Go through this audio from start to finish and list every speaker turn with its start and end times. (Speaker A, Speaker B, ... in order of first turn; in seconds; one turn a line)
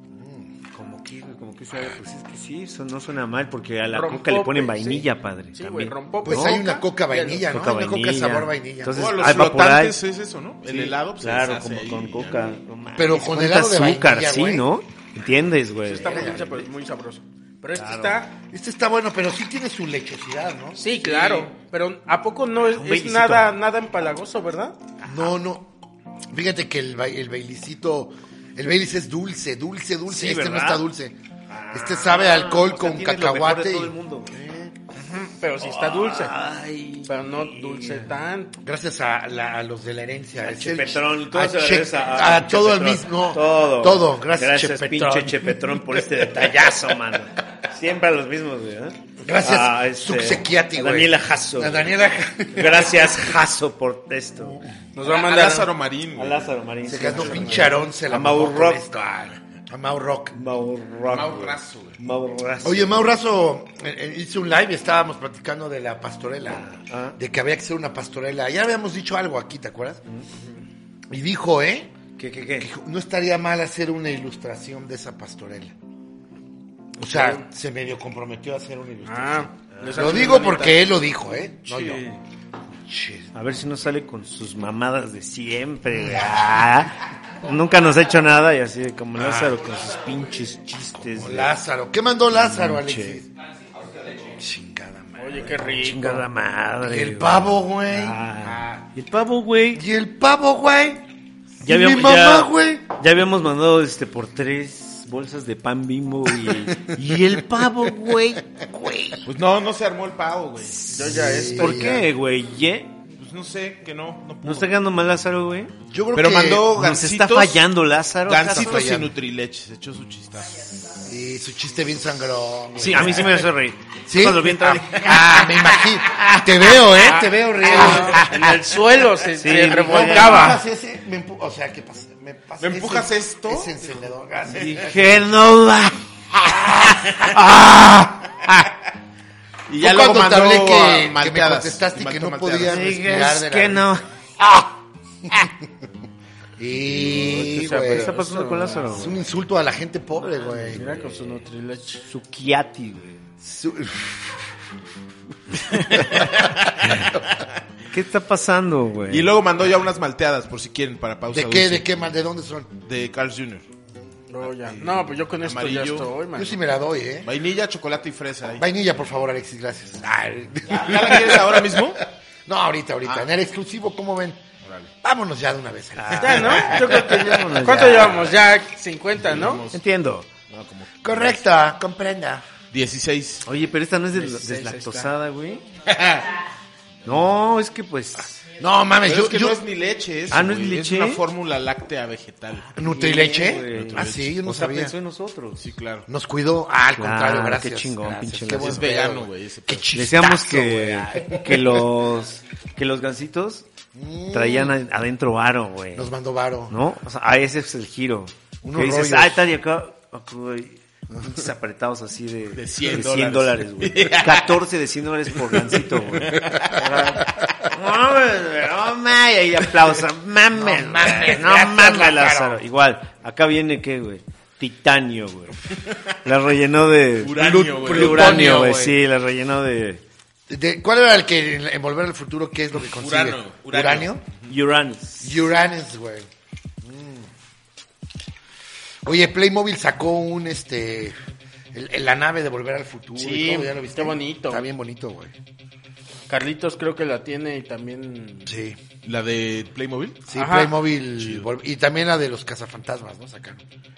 Speaker A: 0.1-0.5
Speaker B: 0.7-6.6
Speaker C: 3.9-7.3
Speaker A: 6.2-9.0
Speaker B: 7.2-10.0
Speaker D: 8.9-12.6
Speaker B: 10.7-16.5
Speaker A: 12.9-14.7
Speaker C: 15.8-18.3
Speaker A: 16.0-16.5
Speaker B: 17.8-18.2
Speaker A: 18.5-21.4
Speaker C: 20.8-24.8
Speaker B: 22.7-23.5
Speaker B: 25.0-25.3
Speaker A: 25.1-25.7
Speaker A: 26.3-31.1
Speaker B: 30.1-30.9
Speaker B: 31.5-34.4
Speaker A: 31.7-34.8
Speaker C: 35.0-36.4
Speaker B: 35.6-38.1
Speaker C: 37.1-38.6
Speaker A: 38.6-46.7
Speaker B: 40.4-51.9
Speaker A: 49.2-53.3
Speaker B: 52.5-54.6
Speaker A: 54.4-54.8
Speaker C: 55.0-55.7
Speaker D: 55.0-56.5
Speaker B: 56.1-58.9
Speaker A: 56.8-60.4
Speaker C: 57.0-57.9
Speaker B: 60.3-63.1
Speaker D: 61.1-62.0
Speaker A: 62.6-70.0
Speaker B: 66.5-67.2
Speaker A: 71.1-72.0
Speaker B: 72.2-72.7
Speaker A: 72.6-75.8
Speaker A: 77.0-82.0
Speaker C: 77.1-77.5
Speaker C: 79.0-80.8
Speaker B: 79.7-80.2
Speaker B: 81.7-82.2
Speaker A: 82.8-83.3
Speaker B: 83.3-91.6
Speaker A: 85.9-86.7
Speaker A: 89.2-89.6
Speaker A: 91.0-93.3
Speaker B: 92.3-93.2
Speaker A: 94.4-95.9
Speaker C: 95.2-96.2
Speaker B: 95.8-99.8
Speaker A: 96.8-98.9
Speaker A: 99.7-101.1
Speaker A: 101.6-102.9
Speaker B: 101.6-108.6
Speaker A: 108.6-109.3
Speaker D: 109.3-110.9
Speaker C: 110.9-112.0
Speaker A: 110.9-112.1
Speaker B: 111.0-113.0
Speaker D: 113.2-114.7
Speaker B: 114.4-115.7
Speaker A: 115.9-116.8
Speaker D: 116.1-117.7
Speaker B: 116.7-119.0
Speaker D: 118.2-121.0
Speaker A: 118.5-119.1
Speaker A: 121.0-123.5
Speaker B: 122.8-128.4
Speaker D: 122.9-123.1
Speaker A: 124.1-128.5
Speaker C: 127.6-130.6
Speaker B: 129.4-130.6
Speaker A: 129.6-135.3
Speaker D: 132.6-134.1
Speaker B: 134.5-138.7
Speaker A: 136.5-137.7
Speaker D: 139.7-143.0
Speaker A: 139.8-143.9
Speaker B: 142.7-144.5
Speaker A: 145.3-145.5
Speaker A: 146.6-148.1
Speaker C: 147.0-149.0
Speaker B: 147.2-149.2
Speaker A: 148.9-150.9
Speaker C: 150.5-152.1
Speaker B: 150.7-151.4
Speaker B: 152.0-153.2
Speaker A: 153.4-154.4
Speaker B: 155.7-156.1
Speaker A: 155.8-157.2
Speaker D: 156.1-157.0
Speaker B: 156.8-157.2
Speaker B: 157.9-159.4
Speaker D: 159.1-161.9
Speaker A: 161.3-162.8
Speaker D: 162.8-163.7
Speaker C: 164.3-166.6
Speaker D: 164.6-166.1
Speaker A: 166.3-167.3
Speaker D: 167.2-168.7
Speaker A: 168.6-174.4
Speaker D: 170.7-172.0
Speaker D: 174.6-174.9
Speaker A: 175.0-177.4
Speaker B: 175.9-178.4
Speaker C: 176.1-179.7
Speaker D: 179.2-179.8
Speaker B: 179.7-180.3
Speaker D: 180.5-181.4
Speaker A: 181.0-182.5
Speaker D: 182.7-183.5
Speaker B: 183.4-185.7
Speaker C: 184.1-185.1
Speaker D: 185.9-186.3
Speaker B: 187.1-188.4
Speaker A: 188.6-189.6
Speaker D: 189.0-193.0
Speaker B: 190.3-191.2
Speaker A: 192.8-194.9
Speaker B: 192.8-195.7
Speaker D: 193.7-194.4
Speaker D: 195.6-196.1
Speaker A: 196.1-201.9
Speaker B: 196.9-198.9
Speaker D: 198.5-199.9
Speaker B: 199.9-203.7
Speaker A: 203.9-204.8
Speaker B: 204.3-206.1
Speaker A: 205.9-206.8
Speaker B: 206.7-230.0
Speaker A: 208.6-209.4
Speaker A: 211.1-211.4
Speaker D: 212.5-214.7
Speaker D: 215.4-217.4
Speaker A: 220.5-222.6
Speaker D: 225.8-226.1
Speaker D: 227.2-228.7
Speaker A: 227.4-229.0
Speaker A: 230.5-234.2
Speaker D: 232.7-234.6
Speaker B: 234.5-235.5
Speaker A: 235.2-236.3
Speaker A: 236.8-237.3
Speaker A: 239.0-241.2
Speaker A: 241.7-245.3
Speaker C: 243.2-244.7
Speaker C: 246.3-248.5
Speaker A: 248.5-248.8
Speaker D: 249.0-250.2
Speaker A: 250.3-253.6
Speaker C: 250.3-250.8
Speaker D: 251.1-251.5